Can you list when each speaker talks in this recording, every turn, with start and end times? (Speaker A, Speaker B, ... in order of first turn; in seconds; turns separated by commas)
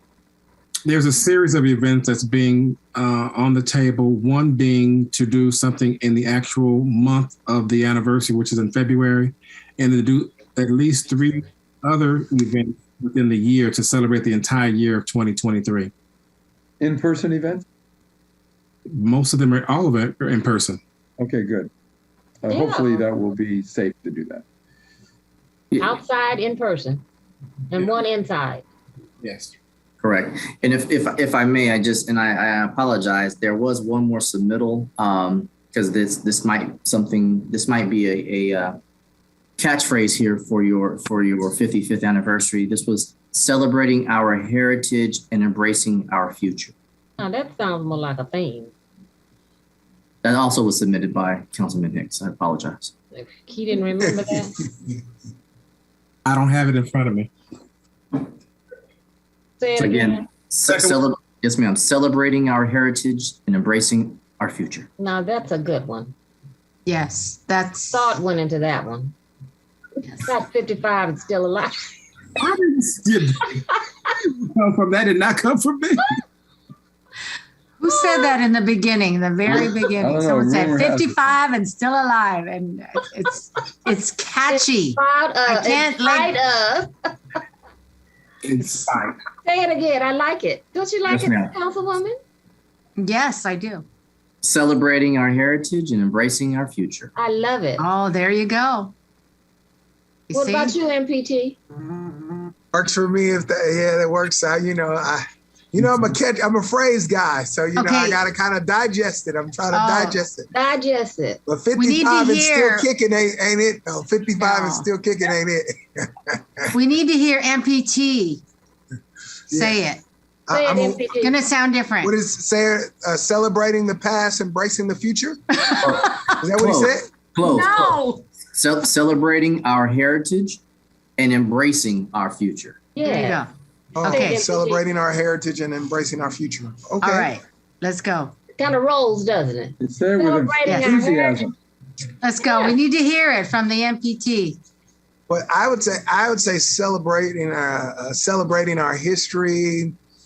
Speaker A: 0.8-15.9, Speaker B: 16.8-17.6, Speaker A: 18.9-20.8, Speaker B: 21.2-21.7, Speaker B: 22.4-24.4, Speaker C: 22.5-23.1, Speaker C: 25.8-27.0, Speaker C: 27.7-28.6, Speaker A: 29.2-29.5, Speaker D: 30.0-38.8, Speaker D: 39.6-46.7, Speaker C: 47.2-48.7, Speaker D: 50.2-52.9, Speaker C: 53.1-54.5, Speaker A: 56.2-57.3, Speaker C: 59.6-60.3, Speaker D: 59.8-64.9, Speaker C: 65.0-66.1, Speaker E: 66.8-68.1, Speaker C: 67.9-69.1, Speaker C: 70.2-71.8, Speaker A: 72.3-76.2, Speaker E: 77.8-86.3, Speaker C: 77.9-78.3, Speaker B: 79.5-81.3, Speaker C: 84.5-87.1, Speaker A: 88.4-89.1, Speaker C: 89.4-92.2, Speaker D: 91.1-91.5, Speaker E: 93.0-93.8, Speaker D: 94.4-97.1, Speaker C: 97.1-97.9, Speaker E: 97.8-98.9, Speaker E: 100.3-100.7, Speaker C: 100.3-101.6, Speaker F: 102.7-110.5, Speaker E: 107.8-108.2, Speaker E: 109.7-110.2, Speaker C: 110.5-111.4, Speaker F: 111.5-116.6, Speaker E: 111.7-112.9, Speaker E: 114.3-114.9, Speaker E: 116.7-118.4, Speaker E: 119.5-120.0, Speaker F: 120.5-121.2, Speaker C: 120.5-121.3, Speaker E: 121.2-122.1, Speaker F: 122.0-125.4, Speaker E: 125.6-126.4, Speaker D: 125.8-128.0, Speaker F: 126.4-127.1, Speaker E: 127.4-128.2, Speaker D: 128.5-130.6, Speaker D: 131.2-132.8, Speaker C: 132.9-133.5, Speaker E: 133.0-133.5, Speaker F: 133.9-137.3, Speaker E: 134.0-134.4, Speaker C: 134.0-134.8, Speaker E: 137.0-138.3, Speaker C: 138.5-141.5, Speaker B: 139.8-141.5, Speaker E: 140.6-141.0, Speaker E: 142.2-144.6, Speaker C: 142.4-142.8, Speaker F: 145.3-149.9